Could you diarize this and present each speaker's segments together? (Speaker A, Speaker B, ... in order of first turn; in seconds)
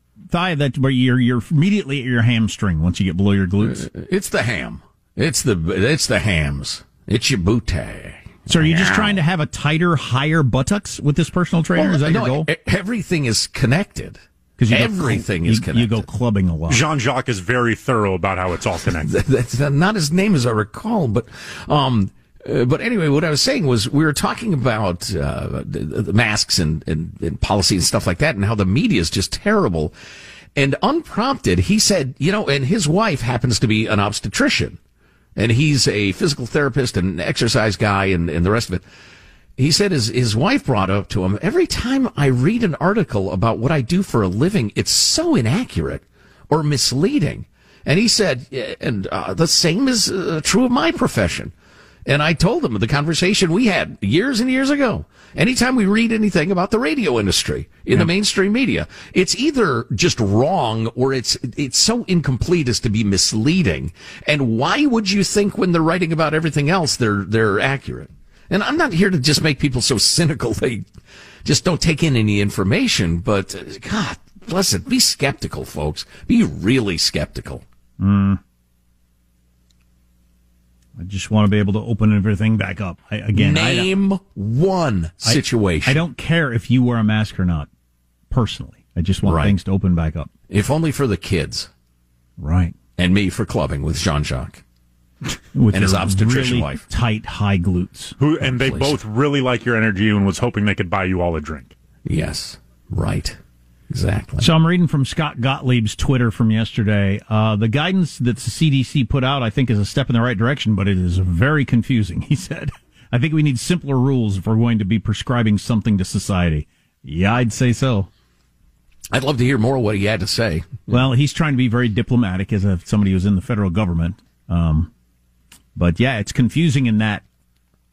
Speaker A: 0.3-3.9, 8.5-12.5, 14.6-16.8, 78.0-78.4, 81.0-83.9, 85.2-87.7, 88.3-90.3, 92.4-92.7, 95.5-98.2, 104.4-118.1, 120.9-124.9, 125.7-127.2
Speaker B: 3.6-9.2, 11.8-16.0, 19.1-29.9, 30.6-34.8, 35.4-38.8, 39.6-51.5, 52.0-70.8, 71.4-77.6, 83.3-86.0, 89.2-89.5, 90.5-91.7, 93.0-94.6, 95.7-96.8, 98.4-99.0, 102.0-103.4, 103.9-104.4, 119.1-120.9
Speaker C: 16.7-19.1, 98.2-101.7